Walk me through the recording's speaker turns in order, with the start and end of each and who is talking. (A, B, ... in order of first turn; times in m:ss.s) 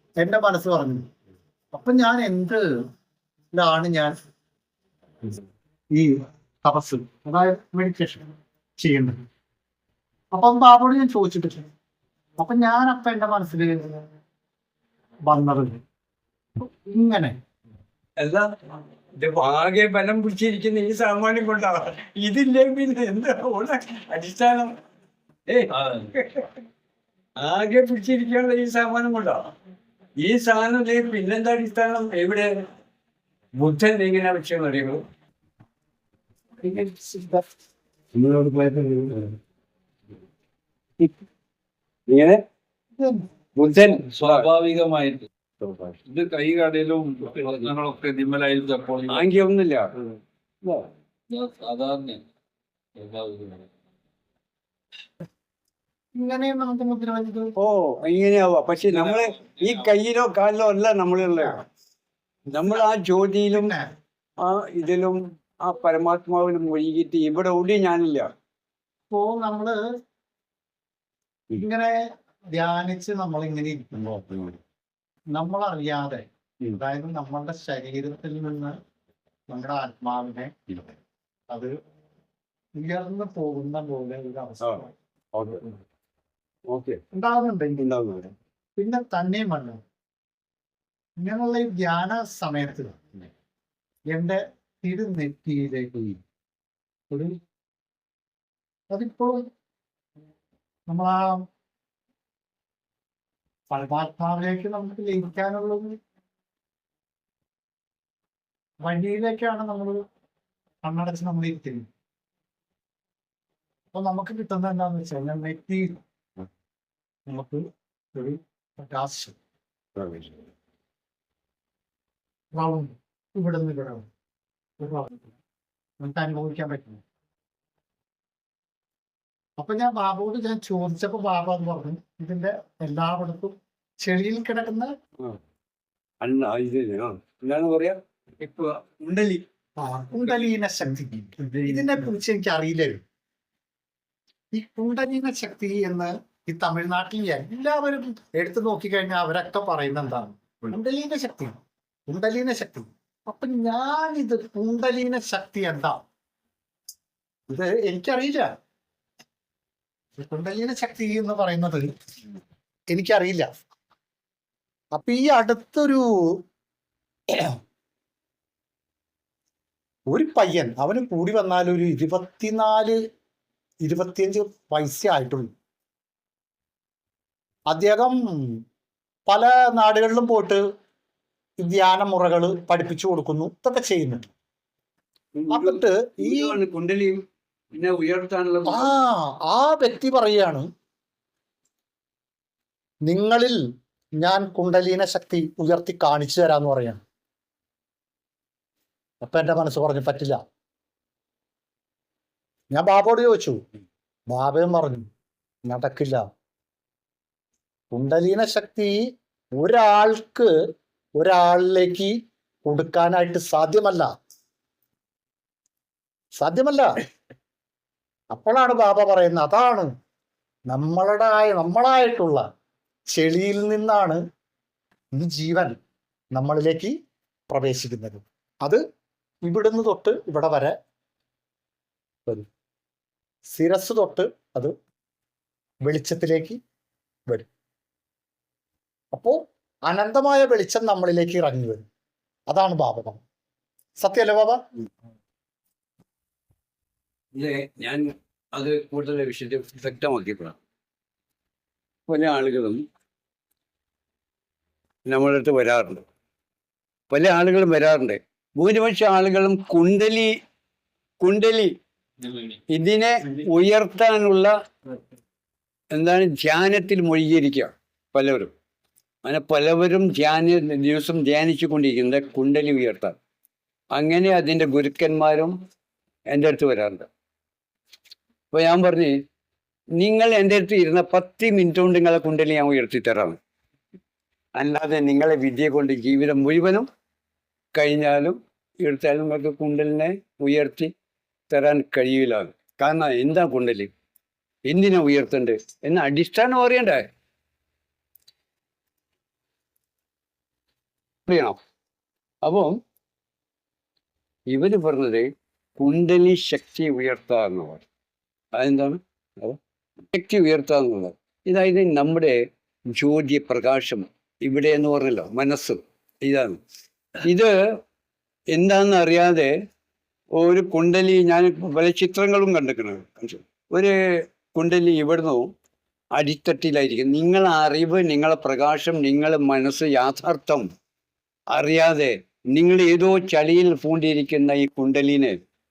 0:00.2-0:01.1 A
0:01.7-0:02.6 A
0:03.5-0:04.1 A
0:05.9-0:09.2 A
0:10.3-0:11.6 A
0:12.4-0:14.0 A
0:15.3-0:15.8 A
0:16.6-0:17.4 A
0:18.2-0:18.5 B
0:19.2-0:24.7 B
0:25.5-0:26.5 B
0:27.4-0:29.5 B
0:30.2-0:32.5 B
0:33.5-0:35.0 B
0:36.6-0:37.4 A
0:38.1-0:39.4 B
0:42.1-0:42.4 B
0:43.0-0:43.2 A
0:43.6-0:44.5 B
0:43.9-0:45.3 C
0:45.6-0:45.9 B
0:46.0-0:49.3 C
0:49.1-0:49.9 B
0:51.3-0:52.2 C
0:53.0-0:53.7 C
0:56.2-0:57.5 A
0:57.6-1:01.6 B
0:59.0-0:59.8 C
1:01.2-1:01.5 A
1:02.5-1:03.7 B
1:03.5-1:03.9 A
1:04.4-1:08.3 B
1:09.1-1:09.8 A
1:11.5-1:12.0 A
1:12.5-1:14.2 A
1:14.2-1:14.5 B
1:15.3-1:16.2 A
1:16.8-1:18.8 A
1:19.5-1:20.9 A
1:22.8-1:24.9 A
1:25.3-1:25.8 B
1:26.7-1:27.0 B
1:27.1-1:27.9 A
1:27.8-1:28.3 B
1:28.8-1:29.8 A
1:31.2-1:33.2 A
1:34.1-1:36.2 A
1:37.1-1:37.4 A
1:38.9-1:39.4 A
1:40.9-1:41.2 A
1:43.7-1:45.9 A
1:48.8-1:50.0 A
1:50.8-1:51.8 A
1:53.9-1:55.9 A
1:57.3-1:59.4 A
2:00.0-2:00.3 B
2:02.5-2:04.0 A
2:04.8-2:05.4 A
2:06.0-2:07.0 A
2:09.6-2:14.9 A
2:16.2-2:19.4 B
2:19.8-2:23.0 A
2:21.4-2:22.1 B
2:24.5-2:36.0 A
2:37.5-2:38.5 A
2:40.2-2:41.9 A
2:42.9-2:43.5 A
2:44.9-2:46.4 A
2:50.1-2:53.0 A
2:53.8-2:55.5 A
2:57.7-2:58.6 A
2:59.3-3:00.6 A
3:01.6-3:04.3 A
3:05.3-3:07.2 B
3:05.5-3:06.6 A
3:07.7-3:08.9 B
3:08.7-3:10.7 A
3:13.0-3:13.6 A
3:14.2-3:17.0 A
3:19.2-3:20.4 A
3:22.7-3:23.6 A
3:24.3-3:25.0 A
3:25.6-3:26.2 A
3:27.9-3:28.9 A
3:29.6-3:30.5 A
3:31.2-3:32.1 A
3:32.6-3:34.1 A
3:36.4-3:36.9 A
3:38.3-3:39.9 A
3:40.7-3:42.4 A
3:43.1-3:44.2 A
3:45.1-3:45.8 A
3:46.3-3:46.9 A
3:47.5-3:48.8 A
3:49.4-3:50.7 A
3:53.5-3:54.7 A
3:55.8-3:56.6 A
3:59.1-4:01.8 A
4:02.5-4:03.2 A
4:04.0-4:04.6 A
4:07.3-4:10.6 B
4:12.1-4:12.8 B
4:15.1-4:16.0 B
4:17.1-4:20.3 B
4:21.2-4:21.8 B
4:22.7-4:24.5 B
4:25.9-4:28.5 B
4:29.2-4:33.2 B
4:33.9-4:35.5 B
4:36.3-4:37.1 B
4:38.5-4:39.1 B
4:40.0-4:43.4 B
4:44.6-4:46.9 B
4:47.7-4:50.9 B
4:51.5-4:53.9 B
4:54.6-4:57.1 B
5:01.3-5:01.6 B
5:02.4-5:02.8 B
5:04.5-5:07.8 B
5:08.6-5:09.6 B
5:10.1-5:12.4 B
5:12.9-5:16.6 B
5:17.2-5:17.8 B
5:18.5-5:19.5 B
5:20.4-5:23.9 B
5:24.5-5:25.5 B
5:26.2-5:30.6 B
5:31.5-5:35.4 B